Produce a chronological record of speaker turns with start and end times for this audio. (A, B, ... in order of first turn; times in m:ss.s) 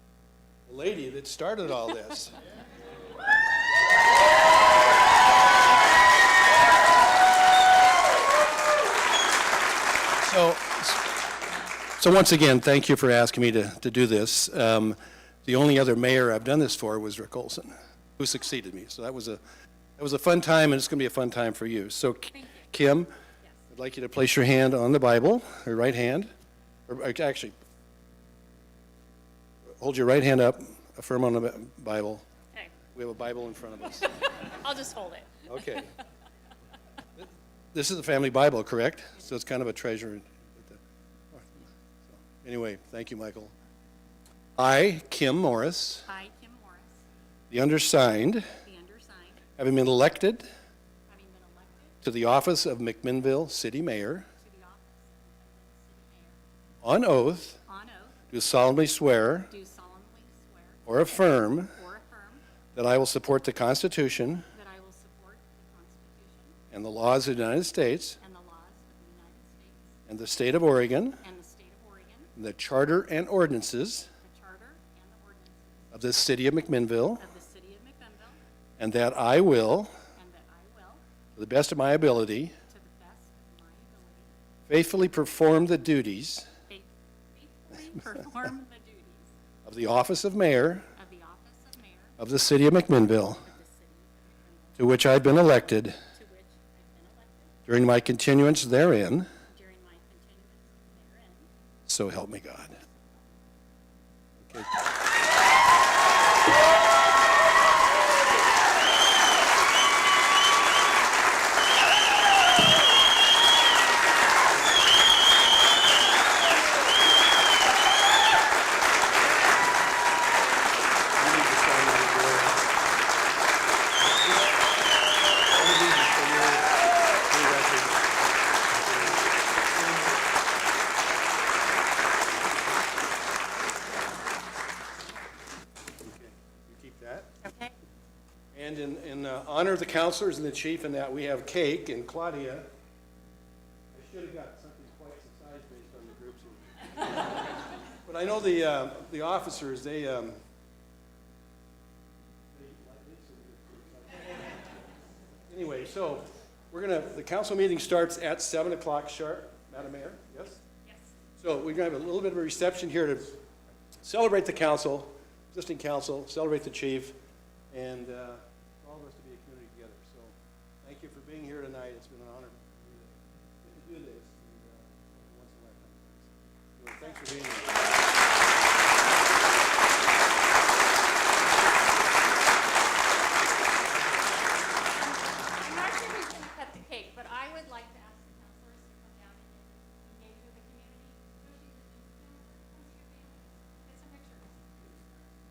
0:00.7-0:02.3 A
0:10.2-0:11.0 A
0:12.0-0:19.4 A
0:20.0-0:23.1 A
0:22.3-0:22.6 B
0:23.7-0:26.3 A
0:26.9-0:27.5 A
0:29.8-0:32.2 A
0:33.0-0:34.1 A
0:34.4-0:35.6 B
0:35.5-0:35.9 A
0:37.2-0:40.8 A
0:41.3-0:43.5 A
0:44.6-0:46.1 A
0:46.1-0:47.0 B
0:47.5-0:48.5 A
0:48.6-0:49.4 B
0:49.6-0:50.4 A
0:51.1-0:52.0 B
0:52.0-0:54.3 A
0:54.4-0:56.4 B
0:56.8-0:57.6 A
0:57.7-0:58.2 B
0:58.3-0:59.5 A
0:59.5-1:00.8 B
1:00.9-1:01.8 A
1:01.7-1:02.4 B
1:02.8-1:04.5 A
1:04.5-1:06.6 B
1:06.7-1:08.2 A
1:08.2-1:10.0 B
1:10.1-1:11.2 A
1:11.2-1:12.3 B
1:12.4-1:14.1 A
1:14.2-1:15.9 B
1:15.9-1:17.2 A
1:17.2-1:18.4 B
1:18.8-1:19.9 A
1:20.1-1:21.0 B
1:21.4-1:22.6 A
1:22.7-1:24.3 B
1:24.7-1:26.5 A
1:26.7-1:29.3 B
1:29.6-1:30.9 A
1:30.9-1:32.2 B
1:32.2-1:33.4 A
1:33.4-1:35.0 B
1:34.8-1:36.0 A
1:36.1-1:37.6 B
1:37.7-1:39.3 A
1:39.5-1:41.5 B
1:41.9-1:42.8 A
1:44.4-1:44.7 A
2:01.2-2:02.6 A
2:05.5-2:06.7 A
2:07.2-2:08.1 A
2:08.7-2:09.3 A
2:16.0-2:17.3 A
2:17.4-2:17.7 B
2:18.5-2:22.7 A
2:23.9-2:26.7 A
2:28.0-2:30.4 A
2:32.5-2:34.9 A
2:35.5-2:40.6 A
2:40.8-2:41.2 B
2:41.4-2:43.4 A
2:44.0-2:47.2 A
2:47.7-2:57.9 A
3:05.0-3:14.6 B